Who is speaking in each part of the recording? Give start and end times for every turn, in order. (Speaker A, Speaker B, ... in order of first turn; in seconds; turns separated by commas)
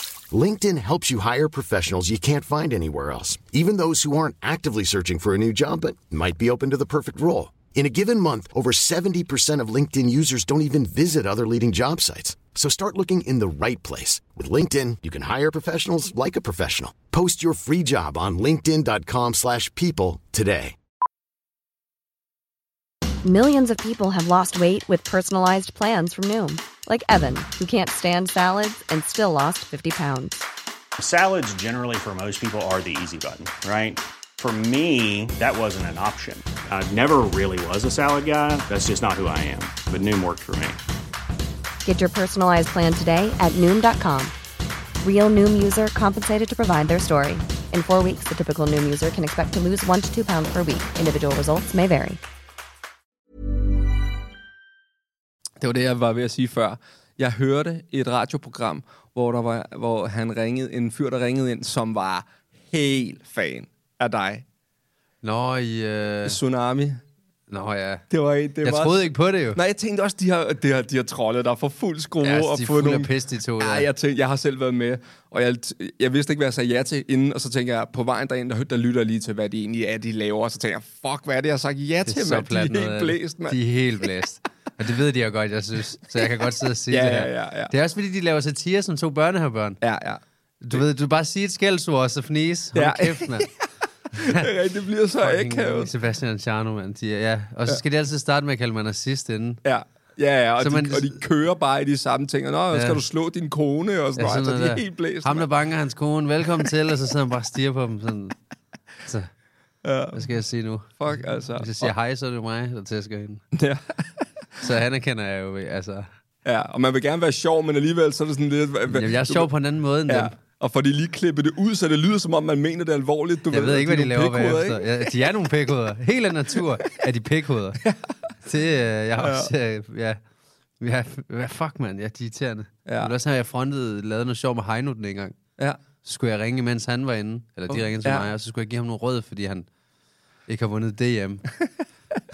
Speaker A: 0.3-20.7, Speaker B: 23.2-30.5, Speaker C: 31.0-40.8, Speaker B: 41.8-44.3, Speaker B: 45.0-52.2, Speaker D: 55.6-64.4, Speaker E: 65.2-66.4, Speaker D: 66.2-67.0, Speaker E: 67.5-68.0, Speaker D: 68.1-69.0, Speaker E: 68.6-69.6, Speaker D: 69.5-83.6, Speaker E: 72.2-73.9, Speaker E: 82.0-89.8, Speaker D: 86.9-87.7, Speaker D: 89.8-90.2, Speaker E: 90.6-93.5, Speaker D: 92.7-93.5, Speaker E: 94.1-94.5, Speaker D: 94.2-95.9, Speaker E: 95.2-99.6, Speaker D: 99.6-105.5, Speaker E: 100.6-101.2, Speaker E: 102.7-103.0, Speaker E: 104.2-108.3, Speaker D: 109.8-110.2, Speaker E: 110.1-110.9, Speaker D: 111.0-111.9, Speaker E: 111.6-113.4, Speaker D: 113.5-114.2, Speaker E: 114.6-116.1, Speaker D: 116.4-119.5, Speaker E: 118.9-120.3, Speaker D: 120.1-125.0, Speaker E: 123.5-127.8, Speaker E: 128.4-130.2, Speaker D: 129.2-129.5, Speaker E: 130.8-135.4, Speaker D: 132.8-133.1, Speaker E: 136.0-139.7, Speaker D: 137.7-138.3, Speaker E: 140.5-141.5